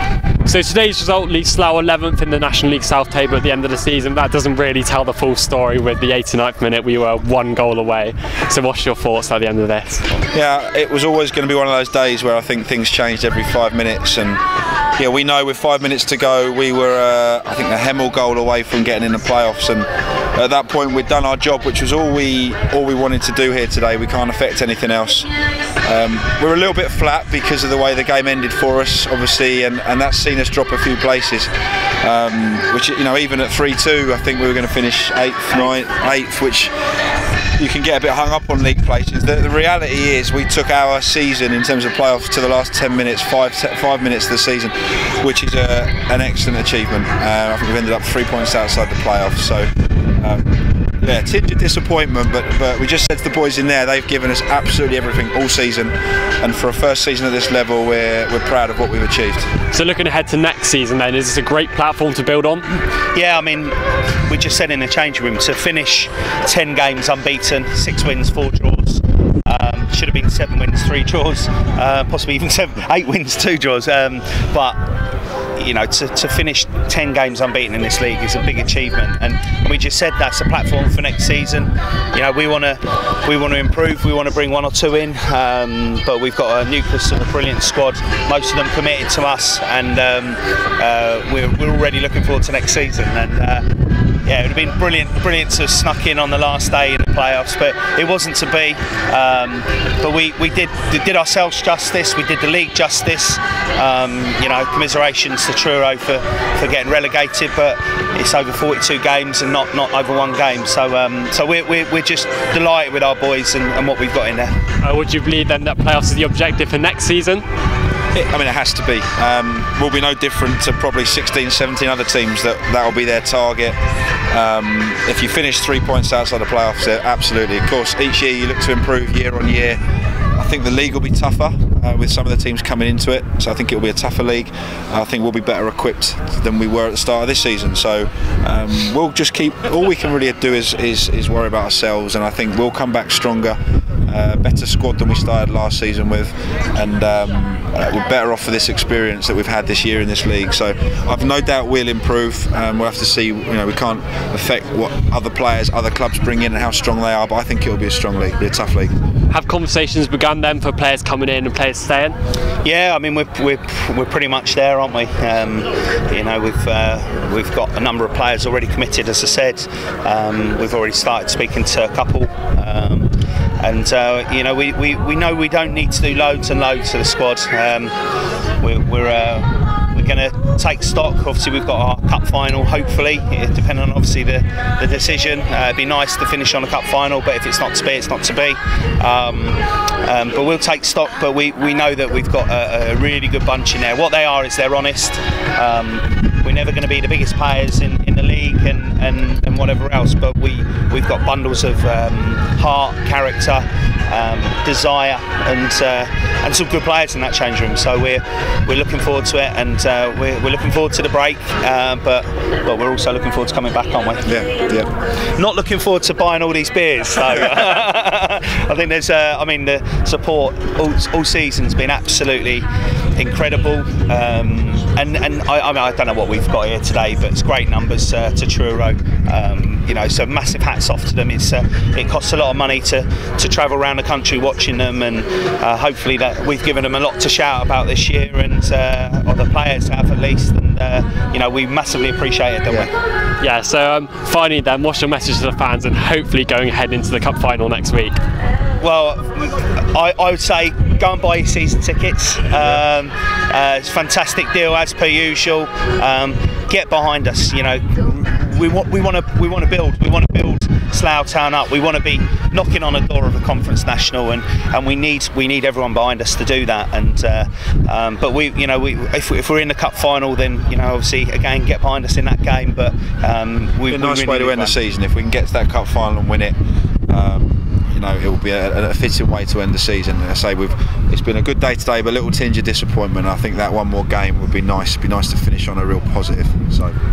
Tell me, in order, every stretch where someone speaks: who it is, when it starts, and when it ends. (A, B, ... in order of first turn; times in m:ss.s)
0:00.4-0:10.1 A
0:10.3-0:14.4 B
0:15.0-0:25.3 B
0:25.8-0:31.5 B
0:32.0-0:36.7 B
0:37.6-0:59.5 B
0:59.7-1:02.6 A
1:03.1-1:14.8 C
1:15.5-1:33.7 C
1:34.2-1:54.6 C
1:54.8-1:57.4 A
1:58.1-2:03.8 B
2:04.3-2:09.8 B
2:10.4-2:38.9 B
2:39.3-2:42.2 A
2:42.6-2:57.9 C
2:58.6-3:34.4 C
3:34.2-3:34.9 B
3:35.4-4:02.9 C
4:03.4-4:08.2 A
4:08.8-4:34.8 C
4:33.9-4:36.5 B
4:37.1-4:46.9 B